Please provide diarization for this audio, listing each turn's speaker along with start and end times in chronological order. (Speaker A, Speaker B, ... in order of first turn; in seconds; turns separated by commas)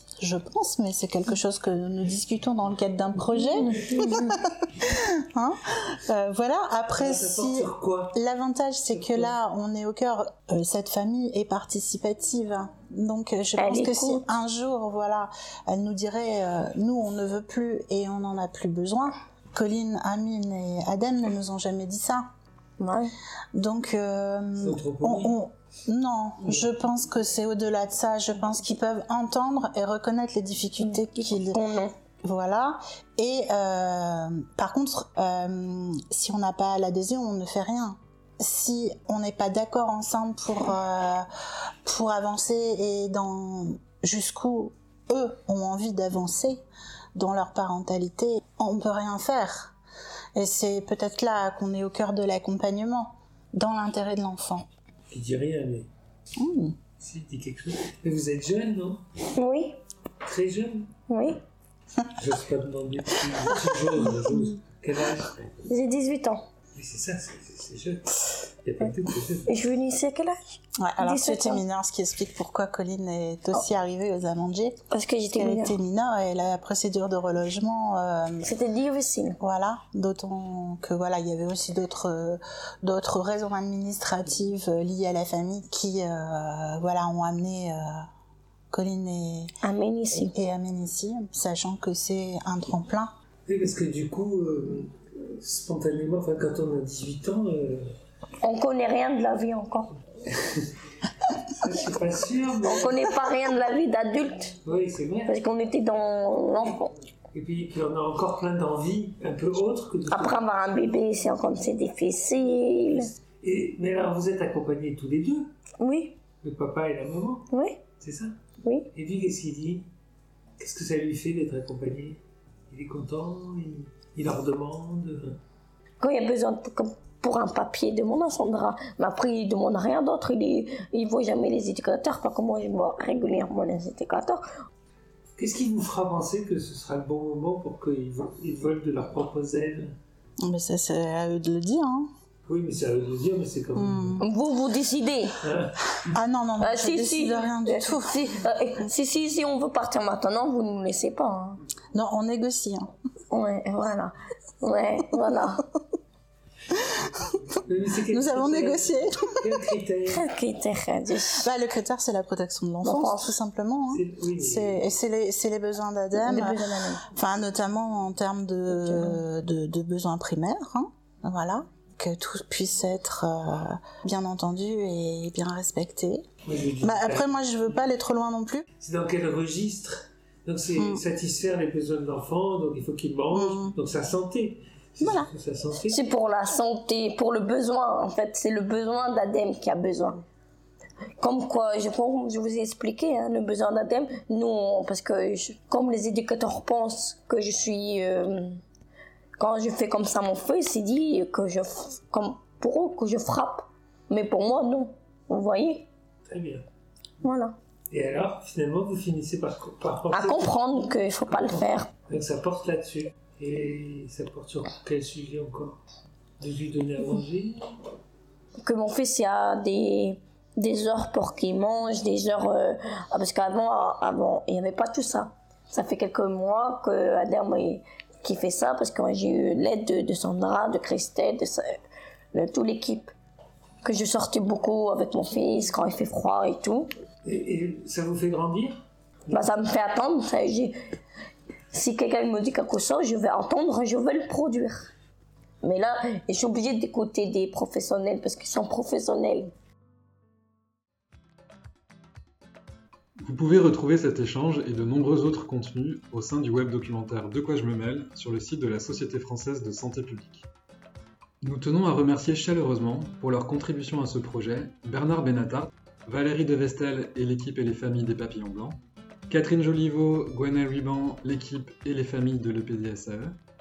Speaker A: 0.2-22.2, Speaker B: 3.6-4.4, Speaker C: 7.0-8.2, Speaker C: 8.9-9.3, Speaker B: 13.6-14.2, Speaker B: 22.8-23.1, Speaker A: 23.6-31.6, Speaker C: 24.6-25.4, Speaker B: 30.8-31.9, Speaker A: 32.2-41.3, Speaker A: 41.9-46.6, Speaker A: 47.1-49.8, Speaker A: 50.4-54.7, Speaker C: 55.1-55.9, Speaker A: 56.4-56.8, Speaker C: 57.0-59.0, Speaker B: 59.4-59.8, Speaker C: 60.2-60.9, Speaker B: 61.1-61.4, Speaker C: 62.1-65.3, Speaker B: 65.7-66.4, Speaker C: 66.7-69.5, Speaker B: 69.5-70.4, Speaker A: 70.8-74.8, Speaker B: 71.0-71.6, Speaker B: 74.9-75.8, Speaker A: 75.3-78.5, Speaker B: 78.4-79.4, Speaker A: 79.4-87.9, Speaker A: 88.7-89.5, Speaker B: 89.6-90.3, Speaker A: 90.1-93.1, Speaker C: 93.5-97.9, Speaker B: 98.4-99.9, Speaker C: 100.3-100.7, Speaker C: 101.5-103.1, Speaker B: 102.6-104.5, Speaker C: 104.6-105.3, Speaker B: 105.3-106.9, Speaker C: 107.3-110.4, Speaker B: 110.1-113.1, Speaker C: 112.9-115.5, Speaker B: 115.8-116.2, Speaker C: 116.4-117.5, Speaker B: 117.5-117.8, Speaker C: 118.0-118.4, Speaker B: 118.6-118.9, Speaker C: 118.9-119.9, Speaker C: 120.6-125.4, Speaker B: 126.0-134.4, Speaker C: 135.4-139.9, Speaker A: 140.4-142.1, Speaker C: 142.5-144.2, Speaker A: 143.8-144.2, Speaker B: 144.2-145.4, Speaker C: 145.4-145.9, Speaker A: 146.1-148.2, Speaker B: 146.6-151.6, Speaker A: 151.9-152.9, Speaker B: 153.3-155.7, Speaker C: 157.7-160.2, Speaker A: 158.1-159.3, Speaker B: 160.1-161.4, Speaker A: 161.4-176.2, Speaker B: 162.8-163.3, Speaker C: 163.9-164.9, Speaker B: 166.2-167.0, Speaker B: 168.8-169.2, Speaker C: 176.5-177.3, Speaker A: 176.8-178.7, Speaker C: 178.8-186.0, Speaker A: 180.8-181.0, Speaker A: 183.3-183.7, Speaker A: 185.0-185.3, Speaker B: 185.9-190.2, Speaker B: 191.2-198.6, Speaker B: 199.4-205.9, Speaker C: 206.3-206.7, Speaker B: 207.2-207.6, Speaker C: 207.9-215.8, Speaker B: 210.1-211.9, Speaker C: 216.4-217.6, Speaker B: 218.6-231.7, Speaker B: 232.3-233.1, Speaker B: 233.8-236.9, Speaker C: 237.2-238.8, Speaker B: 239.3-240.7, Speaker B: 241.7-244.9, Speaker B: 245.6-249.5, Speaker D: 253.2-260.5, Speaker D: 261.4-273.4